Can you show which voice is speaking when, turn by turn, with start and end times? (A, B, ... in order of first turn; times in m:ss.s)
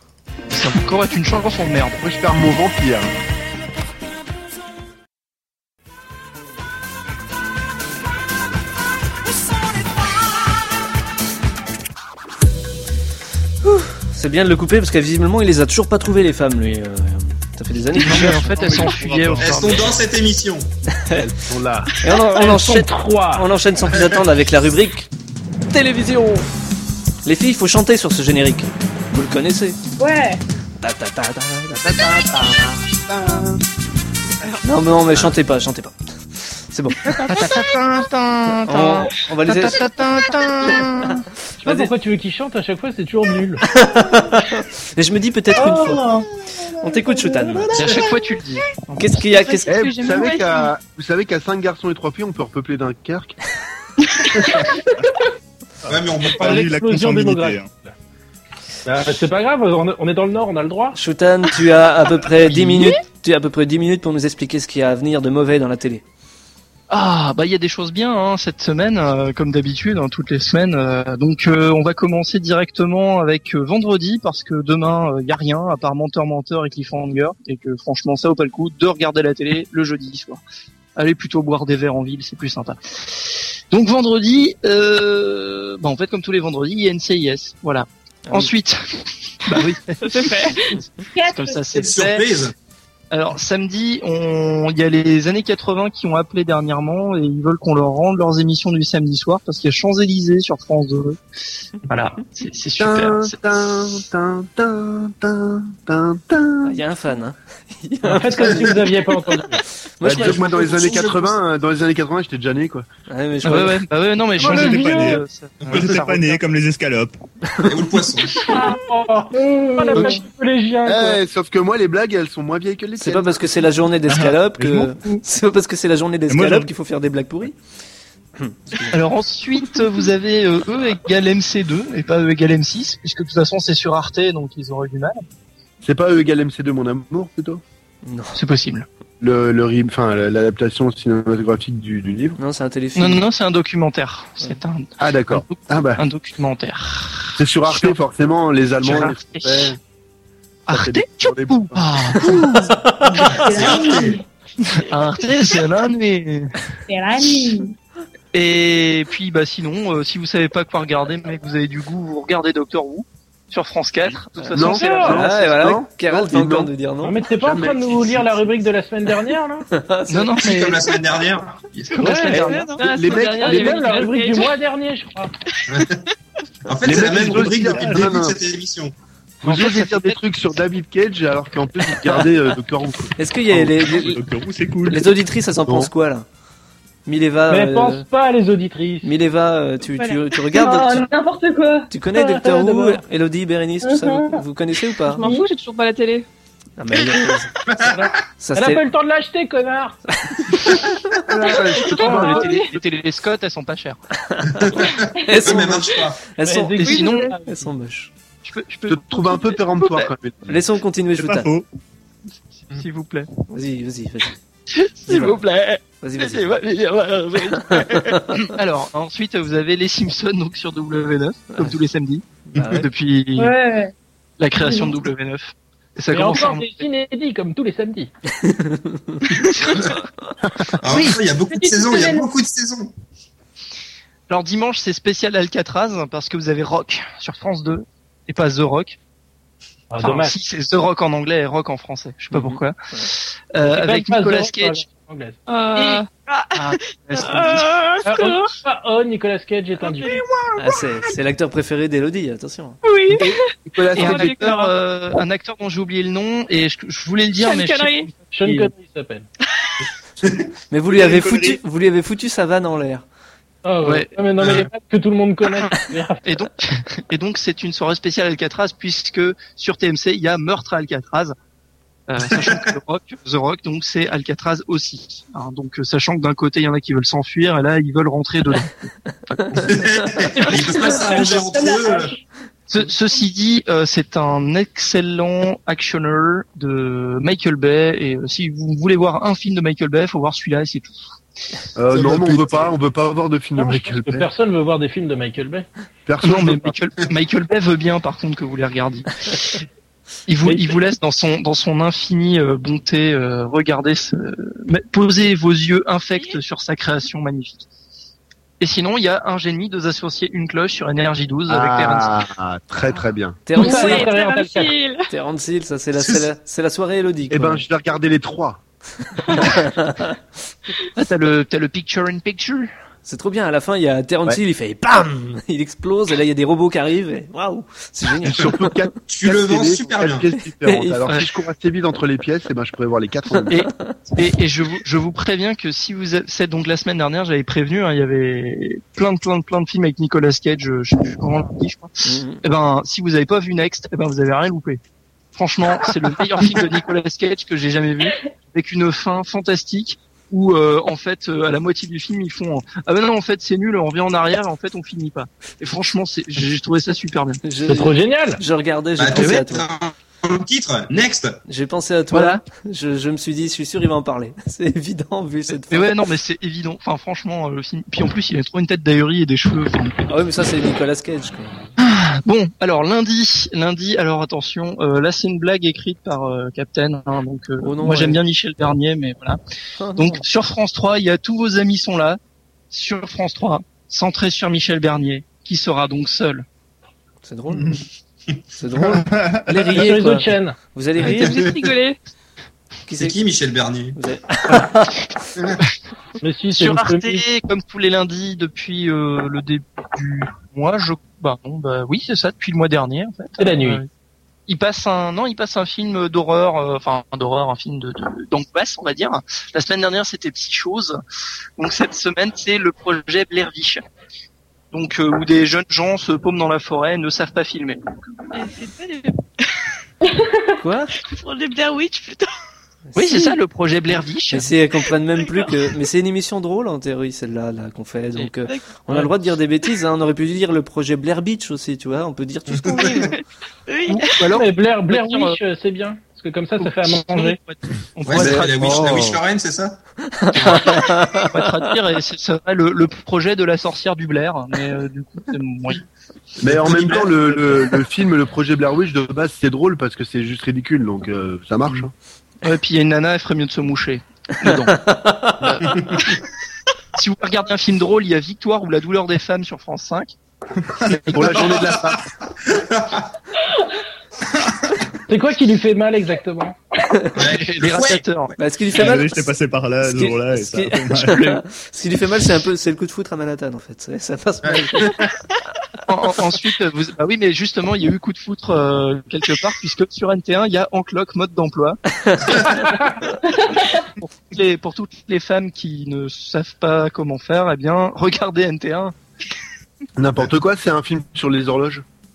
0:00.5-0:02.0 A
0:02.0-0:03.1 B
0:13.6-0:18.9 C
0:18.0-0:20.0 A
0:18.1-0:19.5 D
0:19.4-0:20.7 E
0:21.1-0:21.9 B
0:22.0-0:25.1 C
0:22.3-0:23.5 F
0:25.7-0:26.5 C
0:27.2-0:29.8 C
0:30.0-0:30.4 G
0:30.8-0:32.0 C
0:31.7-0:33.6 B
0:34.6-0:37.1 C
0:37.2-0:41.2 A
0:38.7-0:39.8 C
0:41.6-0:43.6 F
0:41.6-0:41.9 C
0:43.7-0:46.1 C
0:46.6-0:48.0 B
0:46.8-0:47.7 C
0:47.7-0:49.2 A
0:49.0-0:49.7 C
0:49.3-0:50.7 H
0:49.7-0:53.4 B
0:54.0-0:54.3 H
0:55.9-0:56.7 E
0:56.2-0:57.9 F
0:56.4-0:57.7 D
0:58.8-1:01.0 F
1:00.9-1:06.0 C
1:02.4-1:02.9 A
1:06.9-1:20.4 A
1:21.0-1:32.2 A
1:29.5-1:30.6 H
1:31.1-1:31.8 G
1:31.7-1:32.5 E
1:33.1-1:41.2 A
1:41.9-1:43.4 A
1:42.8-1:46.8 B
1:46.6-1:48.8 C
1:48.0-1:49.6 F
1:50.0-1:51.0 C
1:50.0-1:52.9 B
1:50.1-1:51.2 E
1:53.1-1:53.8 C
1:53.4-1:56.4 A
1:54.4-1:55.2 F
1:54.4-1:57.2 D
1:57.6-1:58.5 E
1:58.3-2:01.2 F
2:00.8-2:03.5 B
2:03.0-2:07.5 C
2:04.1-2:04.9 D
2:06.3-2:06.7 D
2:08.4-2:09.0 C
2:08.9-2:15.2 A
2:15.8-2:17.6 B
2:18.0-2:18.4 C
2:18.4-2:18.8 A
2:19.2-2:22.4 B
2:22.4-2:23.2 C
2:23.0-2:27.9 A
2:25.0-2:26.0 B
2:27.3-2:29.8 B
2:28.8-2:29.7 A
2:30.7-2:32.7 A
2:30.7-2:32.4 B
2:32.9-2:33.4 C
2:33.1-2:34.2 E
2:33.2-2:34.2 G
2:34.7-2:36.5 A
2:36.9-2:37.7 G
2:38.3-2:45.2 A
2:44.4-2:47.2 C
2:44.5-2:46.7 B
2:44.6-2:45.2 F
2:47.0-2:49.6 F
2:47.3-2:48.3 B
2:49.7-2:50.3 C
2:50.1-2:50.9 A
2:50.4-2:52.0 E
2:52.0-2:55.3 F
2:52.0-2:52.7 A
2:52.0-2:54.5 H
2:52.8-2:53.8 B
2:55.5-2:55.9 H
2:55.7-2:56.0 E
2:56.6-2:58.9 E
2:56.8-2:58.4 B
2:57.0-2:58.0 D
2:59.4-3:03.1 B
2:59.4-3:00.2 A
3:03.2-3:04.2 C
3:03.6-3:05.1 D
3:04.9-3:06.2 C
3:05.6-3:05.9 B
3:07.0-3:08.0 C
3:07.5-3:09.1 F
3:09.0-3:11.1 C
3:10.6-3:12.8 G
3:11.9-3:15.2 C
3:13.8-3:14.4 G
3:15.1-3:16.2 H
3:15.2-3:15.5 G
3:16.8-3:17.5 C
3:17.6-3:18.1 E
3:17.8-3:20.0 F
3:18.4-3:18.8 C
3:20.2-3:21.0 C
3:21.2-3:22.4 B
3:21.8-3:24.0 A
3:21.9-3:22.5 F
3:22.0-3:22.7 H
3:24.2-3:28.1 C
3:24.5-3:26.2 E
3:26.4-3:27.7 F
3:26.8-3:27.3 A
3:27.0-3:27.3 H
3:28.4-3:30.1 A
3:28.9-3:30.6 B
3:30.5-3:31.5 C
3:31.2-3:31.6 D
3:32.6-3:33.3 A
3:33.5-3:34.3 C
3:34.9-3:43.5 A
3:35.1-3:35.4 C
3:36.0-3:36.5 C
3:37.7-3:38.4 C
3:42.5-3:42.9 C
3:42.5-3:42.8 E
3:43.4-3:43.9 G
3:44.4-3:46.9 A
3:44.6-3:45.0 G
3:46.1-3:48.1 F
3:48.4-3:49.4 C
3:49.7-3:50.0 E
3:50.6-3:51.0 B
3:50.8-3:52.9 E
3:51.5-3:52.3 G
3:54.3-3:59.0 A
3:59.9-4:00.3 F
4:00.0-4:04.8 A
4:02.3-4:03.1 C
4:03.6-4:05.4 F
4:05.5-4:08.5 H
4:06.6-4:07.7 A
4:07.2-4:07.5 F
4:08.0-4:10.2 F
4:09.8-4:10.2 H
4:10.6-4:12.8 C
4:12.8-4:14.7 H
4:13.2-4:14.4 B
4:13.9-4:18.7 A
4:17.4-4:18.1 H
4:18.3-4:19.2 F
4:20.2-4:20.5 E
4:20.7-4:23.0 C
4:20.9-4:21.6 D
4:23.6-4:26.2 F
4:23.8-4:24.1 A
4:24.4-4:24.7 E
4:26.2-4:31.3 A
4:32.1-4:38.8 A
4:32.2-4:32.6 E
4:39.5-4:42.1 E
4:40.4-4:41.2 F
4:40.9-4:42.2 G
4:42.7-4:51.0 A
4:51.8-4:54.3 B
4:53.6-4:55.6 F
4:56.0-4:56.7 B
4:56.2-4:59.6 A
5:00.3-5:07.6 A
5:00.4-5:00.8 F
5:08.6-5:12.1 A
5:11.5-5:13.4 B
5:13.4-5:14.1 C
5:13.5-5:14.7 F
5:13.6-5:15.0 H
5:15.1-5:17.6 C
5:17.3-5:18.6 B
5:19.2-5:20.2 C
5:20.9-5:22.7 A
5:23.0-5:28.8 C
5:28.2-5:33.6 B
5:29.1-5:30.2 E
5:30.6-5:31.0 C
5:33.3-5:34.0 C
5:33.5-5:44.8 A
5:42.0-5:42.4 C
5:45.4-5:57.4 A
5:57.4-5:59.7 C
5:57.6-5:58.4 F
5:59.0-6:01.4 E
5:59.1-5:59.4 A
6:01.5-6:05.9 C
6:02.1-6:02.4 A
6:05.7-6:10.1 A
6:10.1-6:11.6 C
6:11.8-6:19.4 A
6:17.6-6:18.2 C
6:19.8-6:20.2 C
6:20.0-6:22.2 A
6:22.7-6:26.4 A
6:27.2-6:27.6 C
6:27.5-6:27.8 D
6:28.6-6:31.4 C
6:28.9-6:29.7 D
6:29.8-6:30.6 F
6:31.0-6:31.7 E
6:31.0-6:32.0 H
6:32.9-6:33.2 C
6:32.9-6:34.0 E
6:33.9-6:35.0 C
6:36.2-6:37.2 F
6:36.5-6:43.9 A
6:43.4-6:43.8 F
6:44.5-6:51.0 A
6:51.6-6:53.8 A
6:54.7-6:57.8 A
6:58.3-6:59.2 H
7:00.0-7:00.4 G
7:00.6-7:00.9 C
7:01.0-7:02.3 H
7:02.9-7:04.5 A
7:03.1-7:03.4 H
7:04.3-7:13.1 C
7:05.2-7:05.6 H
7:08.4-7:08.8 H
7:12.5-7:13.1 E
7:12.7-7:14.2 H
7:13.9-7:15.4 A
7:14.2-7:17.4 F
7:16.6-7:19.0 A
7:18.0-7:19.8 E
7:18.1-7:19.2 B
7:20.2-7:21.3 C
7:20.3-7:20.8 E
7:21.3-7:25.8 A
7:26.4-7:31.9 B
7:32.4-7:34.8 A
7:34.8-7:35.4 C
7:35.4-7:36.2 A
7:35.7-7:36.2 E
7:36.9-7:40.1 A
7:41.0-7:43.1 E
7:41.1-7:42.0 B
7:44.4-7:44.7 E
7:45.1-7:46.6 F
7:47.1-7:48.0 E
7:47.2-7:48.3 A
7:48.4-7:49.3 C
7:48.7-7:51.4 D
7:49.8-7:55.0 C
7:54.4-7:55.1 E
7:55.9-8:01.8 A
8:02.0-8:02.4 C
8:02.4-8:02.7 A
8:04.0-8:08.9 A
8:10.0-8:11.8 B